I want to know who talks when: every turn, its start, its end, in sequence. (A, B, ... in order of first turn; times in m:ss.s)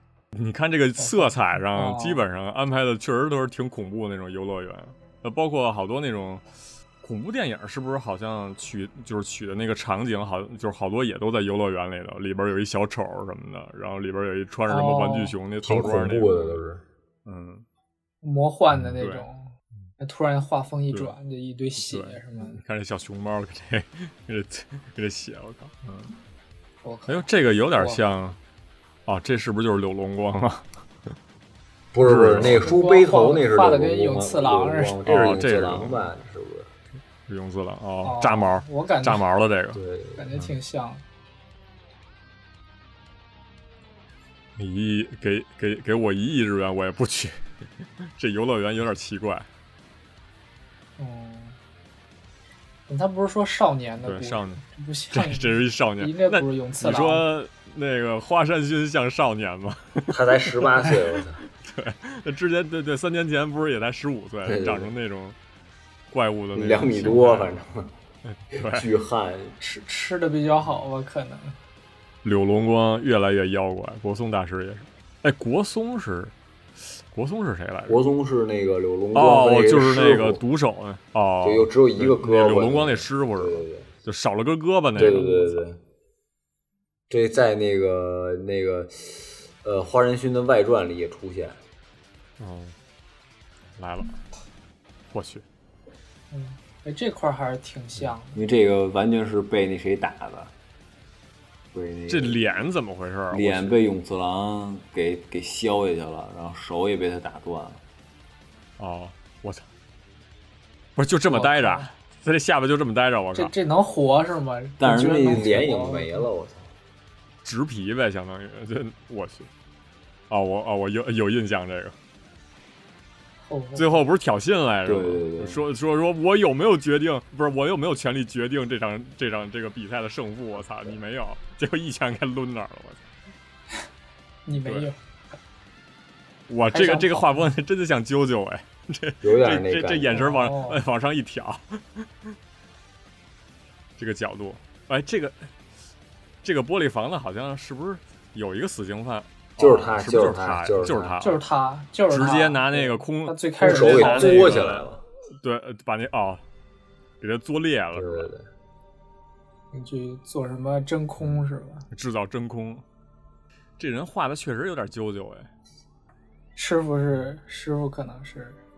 0:00.3-0:06.4 A
0:01.0-0:02.2 B
0:07.0-0:16.6 A
0:14.7-0:15.3 B
0:15.6-0:16.8 C
0:17.2-0:17.6 A
0:18.2-0:22.6 B
0:18.8-0:19.2 A
0:21.8-0:26.1 A
0:26.8-0:28.0 B
0:27.1-0:28.4 A
0:29.0-0:30.6 A
0:31.9-0:36.7 C
0:32.0-0:32.6 A
0:32.5-0:35.0 B
0:35.0-0:36.1 A
0:37.3-0:39.8 A
0:38.0-0:39.2 B
0:39.7-0:40.5 C
0:40.2-0:41.0 B
0:44.6-0:47.4 A
0:48.0-0:49.5 A
0:51.0-0:51.6 B
0:52.9-0:57.3 B
0:54.0-1:01.0 A
1:00.1-1:01.4 C
1:01.6-1:05.4 A
1:04.4-1:04.9 C
1:06.1-1:07.5 A
1:06.5-1:07.9 C
1:08.2-1:08.9 A
1:08.5-1:09.6 C
1:09.6-1:11.6 B
1:12.2-1:16.3 A
1:16.9-1:18.0 A
1:17.9-1:20.4 C
1:19.1-1:25.5 A
1:21.4-1:23.9 C
1:24.9-1:25.8 C
1:25.0-1:25.5 B
1:27.1-1:31.6 C
1:32.4-1:32.8 A
1:33.8-1:34.2 A
1:35.1-1:35.4 A
1:36.3-1:38.4 B
1:38.3-1:40.5 C
1:41.7-1:42.5 C
1:42.1-1:43.8 A
1:43.3-1:47.8 C
1:48.8-1:49.6 A
1:51.0-1:53.5 A
1:51.3-1:51.9 B
1:53.3-1:56.2 B
1:54.8-1:56.7 C
1:57.4-1:59.5 A
2:00.3-2:02.0 A
2:03.4-2:04.0 B
2:03.8-2:13.1 A
2:04.8-2:05.6 C
2:14.4-2:15.0 B
2:16.5-2:22.1 A
2:16.7-2:17.5 B
2:19.2-2:20.2 C
2:20.1-2:20.8 B
2:24.0-2:25.5 A
2:26.4-2:31.4 A
2:29.6-2:31.2 C
2:31.2-2:34.6 B
2:32.1-2:34.8 A
2:33.6-2:35.0 C
2:35.4-2:36.4 A
2:37.2-2:38.3 A
2:37.9-2:38.5 C
2:39.7-2:41.8 B
2:41.9-2:42.8 A
2:43.8-2:45.5 A
2:46.6-2:48.6 B